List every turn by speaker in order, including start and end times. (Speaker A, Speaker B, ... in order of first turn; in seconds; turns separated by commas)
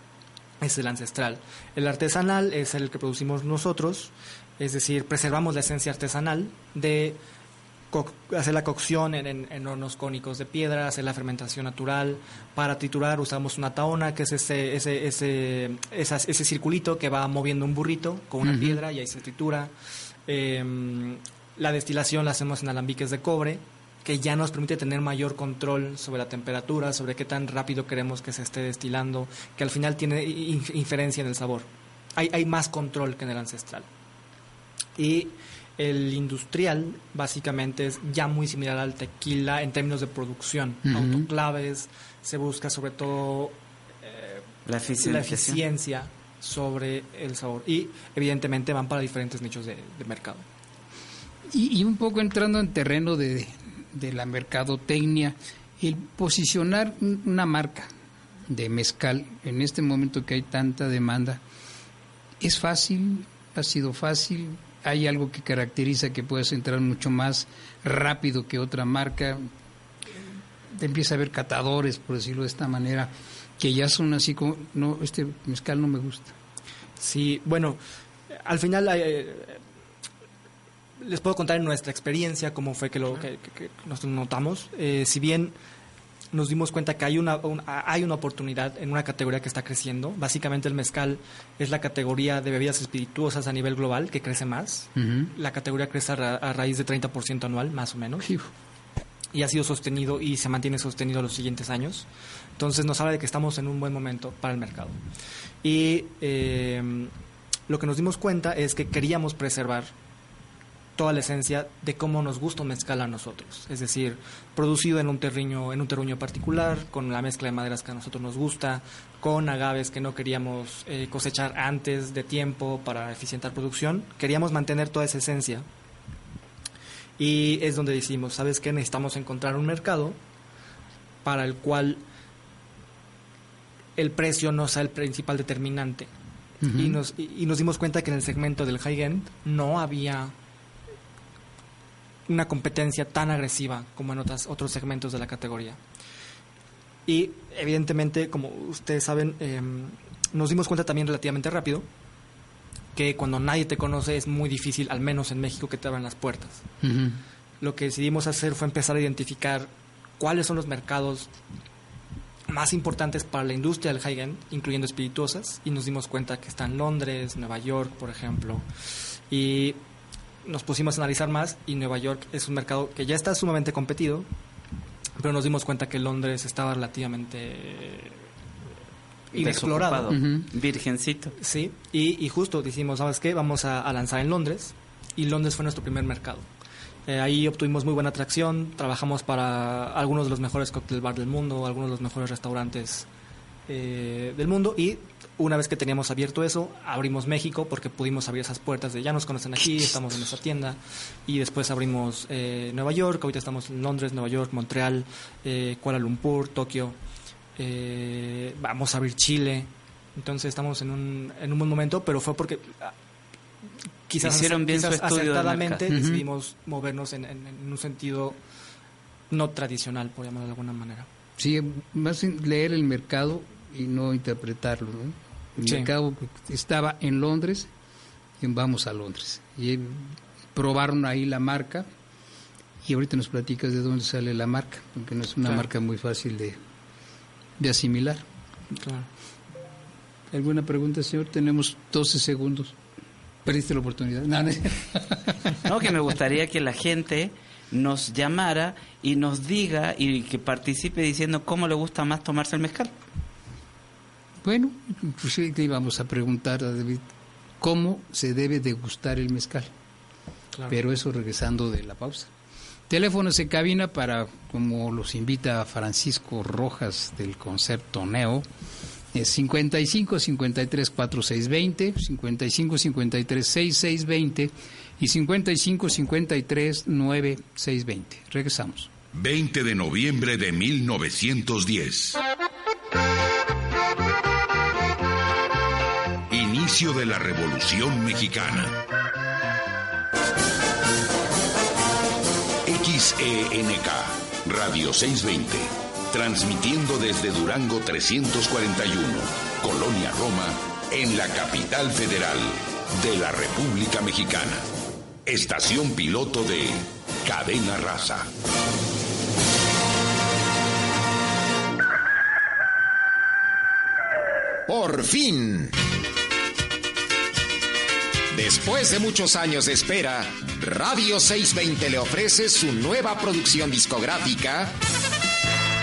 Speaker A: 0.6-7.2, Speaker A: 7.9-19.7, Speaker B: 18.4-18.8, Speaker A: 20.3-33.9, Speaker A: 35.0-44.4, Speaker B: 40.9-41.3, Speaker C: 44.7-45.6, Speaker A: 45.0-50.5, Speaker B: 51.5-57.9, Speaker B: 58.5-61.4, Speaker B: 62.4-69.5, Speaker B: 70.7-76.3, Speaker A: 77.0-77.8, Speaker A: 78.3-79.6, Speaker A: 81.0-85.6, Speaker A: 86.3-98.3, Speaker B: 95.0-95.3, Speaker A: 99.3-105.0, Speaker A: 105.6-107.1, Speaker A: 107.7-109.9, Speaker A: 111.0-125.7, Speaker A: 127.2-130.2, Speaker A: 131.2-132.0, Speaker A: 134.0-136.1, Speaker B: 136.6-137.0, Speaker A: 136.7-140.3, Speaker A: 142.3-145.8, Speaker A: 147.1-151.9, Speaker A: 152.9-156.6, Speaker B: 156.8-157.2, Speaker A: 157.6-161.3, Speaker A: 162.5-168.7, Speaker A: 169.3-169.8, Speaker A: 170.4-174.3, Speaker A: 175.2-178.2, Speaker C: 179.3-181.3, Speaker A: 179.3-180.1, Speaker B: 180.1-180.5, Speaker A: 181.4-186.5, Speaker A: 187.1-193.1, Speaker A: 193.7-207.0, Speaker A: 207.6-212.9, Speaker A: 214.1-218.4, Speaker C: 214.2-215.9, Speaker B: 215.9-216.2, Speaker A: 219.3-221.1, Speaker B: 221.4-227.7, Speaker A: 225.6-225.9, Speaker B: 228.4-231.9, Speaker B: 232.8-236.6, Speaker B: 237.6-238.2, Speaker A: 238.8-239.1, Speaker B: 240.3-242.8, Speaker B: 243.4-245.5, Speaker C: 245.7-252.9, Speaker B: 254.4-257.1, Speaker B: 257.6-259.7, Speaker B: 260.7-262.3, Speaker B: 262.9-268.5, Speaker B: 269.1-278.9, Speaker D: 279.1-282.2, Speaker D: 286.3-288.7, Speaker D: 292.7-304.6, Speaker D: 305.3-308.3, Speaker E: 314.7-315.7, Speaker E: 318.3-324.7